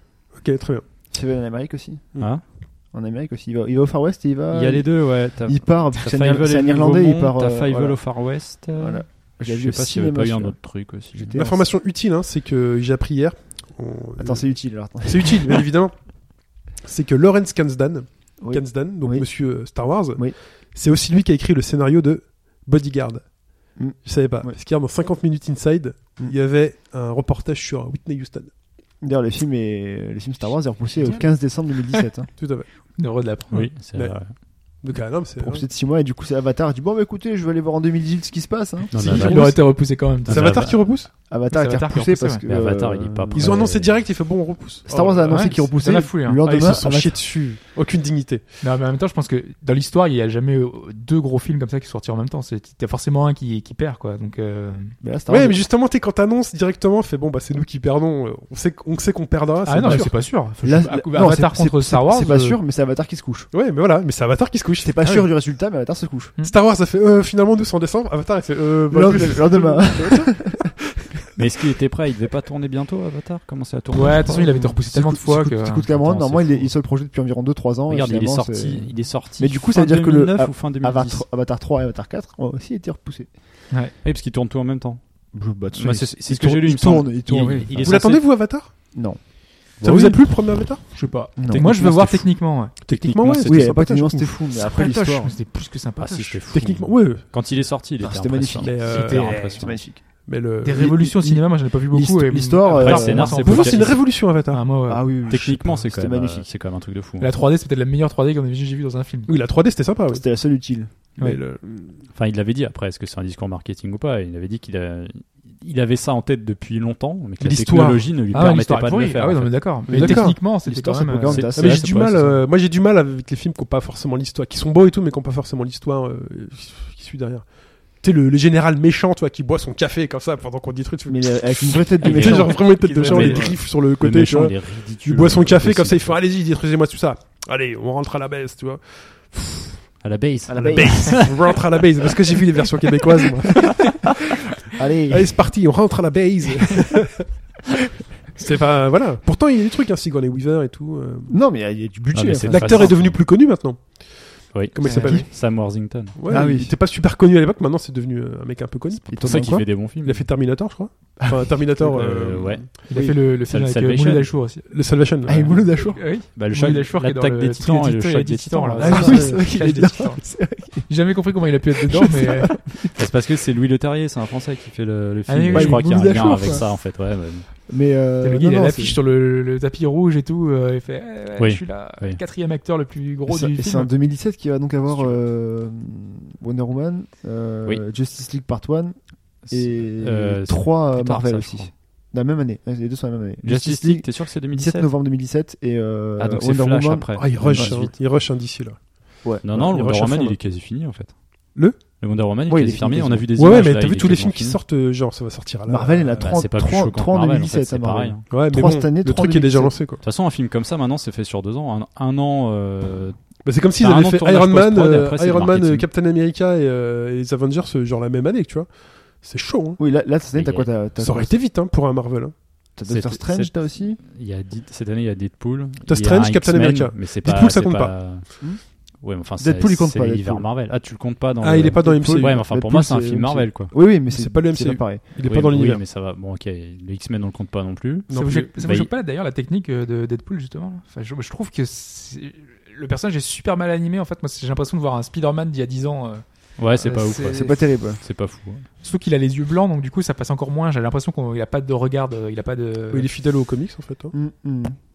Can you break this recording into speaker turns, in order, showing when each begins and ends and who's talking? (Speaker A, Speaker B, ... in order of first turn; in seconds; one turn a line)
Speaker A: 0.3-0.8
Speaker B: 1.1-8.2
Speaker C: 2.2-2.4
Speaker C: 4.5-11.4
Speaker B: 8.7-10.6
Speaker B: 11.1-11.7
Speaker A: 11.3-28.5
Speaker B: 14.2-15.7
Speaker B: 18.4-20.4
Speaker B: 23.8-24.6
Speaker B: 29.0-32.3
Speaker D: 31.0-31.3
Speaker A: 32.4-32.7
Speaker D: 33.0-33.7
Speaker C: 33.5-34.3
Speaker A: 33.9-34.2
Speaker A: 34.8-35.7
Speaker B: 35.4-39.5
Speaker C: 38.9-40.9
Speaker D: 39.0-40.8
Speaker A: 39.0-39.5
Speaker A: 40.3-41.1
Speaker B: 41.3-43.7
Speaker D: 41.5-42.4
Speaker C: 42.5-44.0
Speaker A: 43.4-45.7
Speaker B: 44.9-47.3
Speaker D: 45.3-46.4
Speaker A: 46.4-48.4
Speaker D: 48.6-55.0
Speaker B: 55.0-55.6
Speaker A: 55.3-60.2
Speaker D: 59.7-62.6
Speaker B: 59.8-63.5
Speaker A: 63.5-65.2
Speaker B: 64.8-66.3
Speaker A: 66.4-70.5
Speaker B: 68.9-70.7
Speaker C: 71.4-74.5
Speaker D: 73.9-75.9
Speaker B: 74.4-83.3
Speaker C: 75.9-76.7
Speaker C: 77.9-81.2
Speaker C: 84.0-85.0
Speaker B: 85.3-88.2
Speaker C: 85.7-88.2
Speaker A: 87.8-88.7
Speaker B: 88.9-89.8
Speaker C: 89.8-90.3
Speaker A: 89.8-90.9
Speaker D: 90.8-92.7
Speaker B: 91.4-91.7
Speaker C: 91.5-93.8
Speaker A: 92.8-94.3
Speaker B: 93.4-95.3
Speaker D: 94.6-96.4
Speaker C: 96.0-99.8
Speaker A: 96.5-97.2
Speaker B: 98.0-100.0
Speaker A: 98.6-99.5
Speaker D: 98.9-99.6
Speaker A: 100.2-101.1
Speaker D: 100.6-105.1
Speaker B: 101.0-103.7
Speaker C: 102.8-104.0
Speaker A: 103.4-104.7
Speaker B: 104.9-106.5
Speaker C: 105.3-107.3
Speaker D: 107.2-109.3
Speaker A: 109.3-110.2
Speaker B: 110.1-111.2
Speaker A: 111.2-112.0
Speaker C: 112.1-119.6
Speaker A: 117.4-118.1
Speaker D: 118.3-121.5
Speaker B: 119.9-122.4
Speaker A: 119.9-120.4
Speaker C: 121.2-122.2
Speaker A: 121.5-139.8
Speaker B: 131.1-133.6
Speaker C: 132.0-136.2
Speaker C: 140.0-141.7
Speaker B: 140.5-141.2
Speaker A: 140.7-144.1
Speaker B: 144.8-145.4
Speaker A: 145.1-147.5
Speaker A: 148.4-151.3
Speaker B: 151.3-153.0
Speaker C: 152.1-153.2
Speaker A: 152.5-155.4
Speaker C: 154.5-156.2
Speaker D: 154.8-155.3
Speaker A: 156.2-162.7
Speaker B: 156.3-156.7
Speaker B: 159.1-159.8
Speaker C: 159.2-160.3
Speaker B: 161.2-161.7
Speaker C: 161.8-164.4
Speaker D: 162.9-164.7
Speaker B: 162.9-163.2
Speaker A: 164.7-165.7
Speaker B: 165.3-166.0
Speaker D: 165.8-172.7
Speaker C: 166.3-169.3
Speaker B: 168.8-170.9
Speaker A: 168.8-169.4
Speaker B: 171.9-172.9
Speaker C: 172.9-177.5
Speaker D: 175.3-176.6
Speaker B: 175.5-176.9
Speaker B: 177.7-179.0
Speaker D: 178.2-183.9
Speaker C: 181.4-182.2
Speaker B: 183.3-197.9
Speaker C: 189.5-191.7
Speaker C: 193.4-194.9
Speaker C: 196.2-197.9
Speaker A: 197.2-200.4
Speaker B: 199.2-199.7
Speaker C: 199.4-201.2
Speaker C: 201.8-204.6
Speaker B: 202.5-203.6
Speaker A: 203.4-206.4
Speaker B: 205.7-209.8
Speaker C: 206.2-208.3
Speaker A: 208.3-210.0
Speaker C: 210.0-213.2
Speaker A: 213.4-219.8
Speaker C: 213.8-215.9
Speaker B: 219.8-221.3
Speaker C: 220.3-220.7
Speaker A: 221.0-222.3
Speaker B: 222.8-224.0
Speaker C: 222.9-233.7
Speaker A: 225.9-228.1
Speaker B: 229.4-230.5
Speaker A: 231.4-232.4
Speaker B: 231.5-235.0
Speaker A: 234.0-235.8
Speaker C: 235.2-238.9
Speaker A: 238.1-238.5
Speaker D: 238.1-247.6
Speaker C: 246.6-248.7
Speaker B: 247.3-248.0
Speaker D: 248.8-253.1
Speaker A: 252.9-254.1
Speaker B: 254.1-254.8